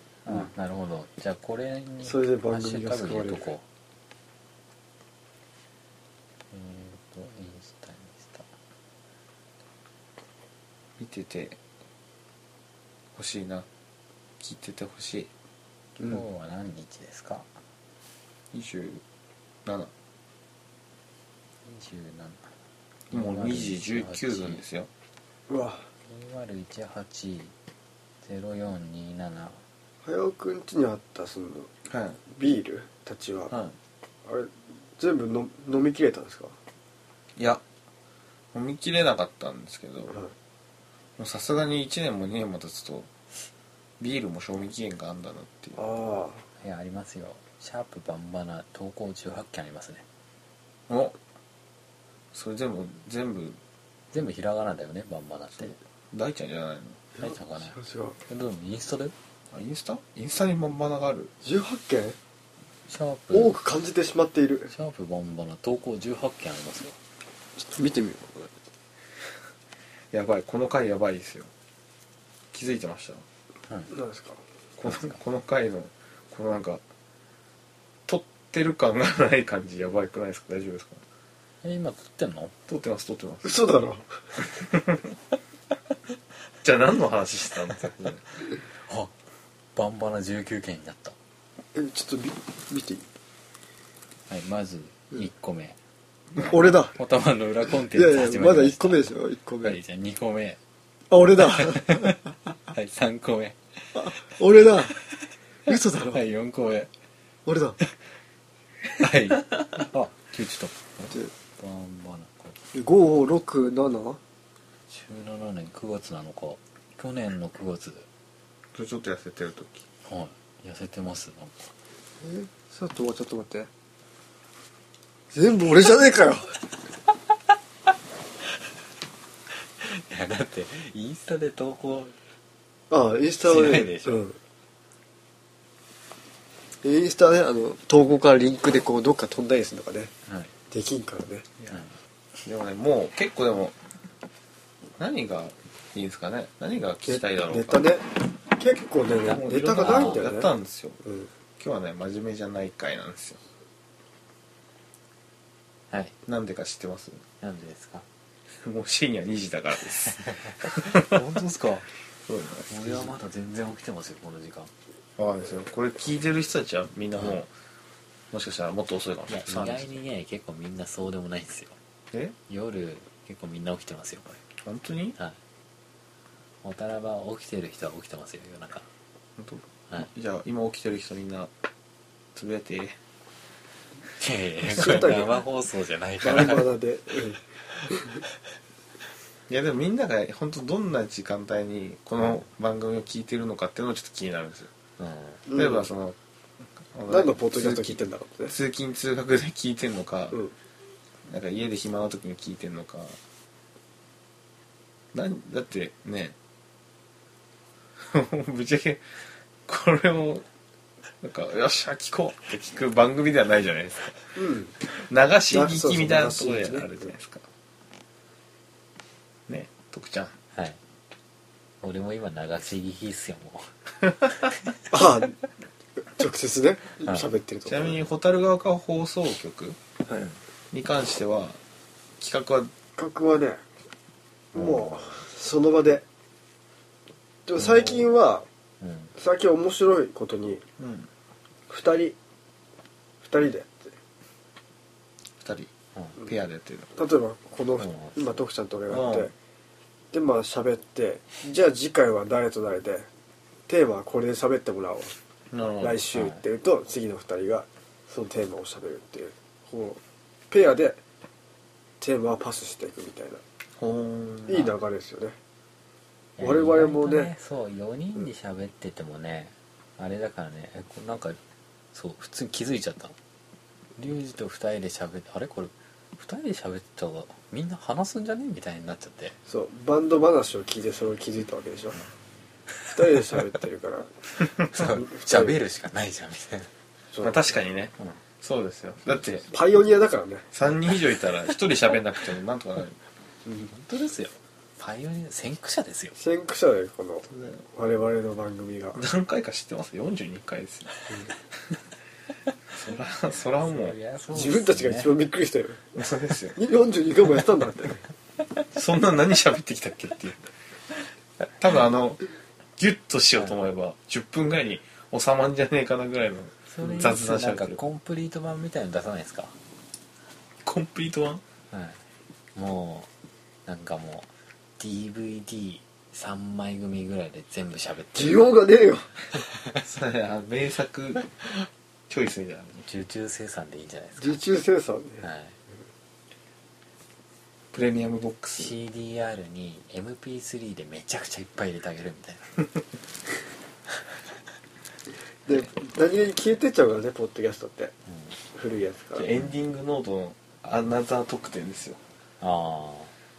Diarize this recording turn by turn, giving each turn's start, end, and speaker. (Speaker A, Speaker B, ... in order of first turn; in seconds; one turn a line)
Speaker A: 0.2-3.6
Speaker B: 2.0-3.5
Speaker A: 6.5-8.5
Speaker C: 11.0-11.6
Speaker C: 13.1-13.7
Speaker C: 14.4-15.3
Speaker A: 16.0-17.5
Speaker C: 18.5-19.0
Speaker C: 19.6-19.9
Speaker A: 21.6-22.5
Speaker A: 23.1-24.6
Speaker C: 23.1-24.9
Speaker B: 25.5-25.9
Speaker A: 26.0-27.5
Speaker A: 28.2-29.6
Speaker B: 30.0-31.7
Speaker C: 31.9-32.2
Speaker B: 32.3-33.5
Speaker C: 33.5-33.8
Speaker B: 34.2-36.6
Speaker C: 37.4-37.6
Speaker C: 38.5-40.1
Speaker C: 41.2-43.1
Speaker C: 44.0-45.8
Speaker B: 45.8-46.4
Speaker A: 46.6-50.0
Speaker C: 50.9-51.2
Speaker C: 52.3-53.6
Speaker A: 54.1-55.8
Speaker C: 56.1-57.0
Speaker A: 57.2-57.8
Speaker B: 57.2-58.2
Speaker A: 58.3-59.1
Speaker C: 59.5-61.3
Speaker B: 61.4-62.2
Speaker A: 62.9-63.5
Speaker B: 63.3-64.7
Speaker A: 64.7-67.0
Speaker B: 67.6-68.5
Speaker C: 70.1-71.5
Speaker C: 72.5-73.2
Speaker B: 73.9-74.4
Speaker C: 74.8-76.8
Speaker A: 74.8-75.2
Speaker C: 78.1-81.0
Speaker A: 81.6-82.5
Speaker C: 82.7-83.5
Speaker B: 83.4-84.1
Speaker C: 84.5-85.0
Speaker C: 86.6-88.2
Speaker A: 88.7-89.1
Speaker A: 89.7-91.2
Speaker B: 91.7-93.0
Speaker A: 94.3-95.8
Speaker B: 96.4-97.0
Speaker A: 96.9-99.1
Speaker B: 97.9-99.8
Speaker A: 99.6-100.6
Speaker B: 101.1-102.2
Speaker A: 101.6-103.6
Speaker B: 103.9-105.0
Speaker B: 105.7-106.2
Speaker A: 106.1-106.9
Speaker B: 107.5-107.8
Speaker A: 109.0-112.6
Speaker B: 112.7-114.2
Speaker A: 114.9-118.1
Speaker C: 118.7-119.8
Speaker A: 120.0-121.7
Speaker B: 122.2-123.7
Speaker B: 125.3-126.5
Speaker A: 129.8-132.2
Speaker B: 132.9-134.4
Speaker A: 133.4-134.2
Speaker B: 136.8-140.1
Speaker A: 140.2-140.5
Speaker B: 140.7-141.5
Speaker C: 142.4-143.8
Speaker C: 145.0-147.8
Speaker B: 147.1-150.5
Speaker A: 149.2-150.2
Speaker C: 149.3-151.0
Speaker B: 151.0-151.3
Speaker C: 151.6-153.4
Speaker C: 156.2-157.2
Speaker A: 157.4-158.1
Speaker C: 158.5-161.2
Speaker A: 160.1-161.9
Speaker C: 162.3-163.1
Speaker A: 162.7-164.7
Speaker C: 165.2-167.5
Speaker C: 168.3-170.0
Speaker A: 169.3-171.8
Speaker A: 172.5-174.4
Speaker C: 174.6-175.2
Speaker A: 176.6-178.9
Speaker C: 179.4-181.5
Speaker C: 182.3-183.0
Speaker A: 184.2-186.7
Speaker B: 184.7-185.4
Speaker B: 186.2-188.2
Speaker C: 189.5-194.7
Speaker A: 195.0-195.4
Speaker B: 195.5-195.9
Speaker C: 195.5-196.2
Speaker C: 196.9-200.4
Speaker B: 197.1-198.5
Speaker C: 201.3-203.2
Speaker C: 205.1-206.3
Speaker C: 208.0-210.4
Speaker C: 211.2-217.5
Speaker B: 214.3-214.8
Speaker B: 215.5-217.0
Speaker C: 219.5-220.3
Speaker A: 220.5-220.8
Speaker A: 221.8-223.7
Speaker B: 224.9-225.4
Speaker B: 226.0-228.0
Speaker C: 227.7-229.8
Speaker C: 230.7-231.6
Speaker C: 232.2-232.7
Speaker B: 232.9-233.6
Speaker B: 234.5-236.0
Speaker A: 234.6-235.1
Speaker B: 237.4-238.5
Speaker A: 237.6-238.1
Speaker A: 238.8-239.1
Speaker B: 239.2-240.6
Speaker C: 240.8-241.1
Speaker B: 241.7-242.2
Speaker B: 243.2-243.9
Speaker C: 245.4-245.7
Speaker C: 246.2-246.9
Speaker B: 246.9-249.3
Speaker A: 247.8-248.4
Speaker C: 248.9-249.3
Speaker B: 250.1-253.1
Speaker B: 253.7-255.1
Speaker C: 255.5-256.1
Speaker B: 255.8-260.0
Speaker A: 256.1-256.4
Speaker B: 260.5-261.0
Speaker B: 262.0-263.4
Speaker C: 263.8-264.7
Speaker B: 264.5-265.4
Speaker A: 266.4-271.4
Speaker B: 266.4-267.3
Speaker A: 271.9-273.1
Speaker A: 274.0-279.4
Speaker B: 279.5-282.0
Speaker B: 282.9-284.1
Speaker A: 284.6-286.7
Speaker B: 284.8-285.6
Speaker B: 287.1-287.4
Speaker C: 287.2-289.5
Speaker B: 289.5-290.4
Speaker C: 290.5-293.0
Speaker B: 293.4-293.7
Speaker A: 293.7-296.2
Speaker B: 296.1-299.0
Speaker C: 297.3-297.6
Speaker C: 298.9-300.9
Speaker C: 302.7-304.0
Speaker A: 303.6-305.1
Speaker B: 304.3-305.8
Speaker C: 305.9-306.6
Speaker B: 306.6-308.0
Speaker C: 308.7-310.4
Speaker C: 311.4-312.2
Speaker C: 312.8-317.8
Speaker A: 316.7-319.6
Speaker C: 320.6-321.4
Speaker A: 321.7-322.0
Speaker A: 322.5-323.1
Speaker A: 323.6-328.4
Speaker B: 328.1-329.1
Speaker C: 329.8-332.8
Speaker A: 332.8-334.4
Speaker B: 334.2-335.2
Speaker A: 335.2-335.6
Speaker C: 337.7-338.7
Speaker A: 338.6-342.6
Speaker B: 345.5-347.9
Speaker A: 348.1-348.4
Speaker B: 348.5-349.3
Speaker C: 349.1-352.0
Speaker A: 352.4-353.1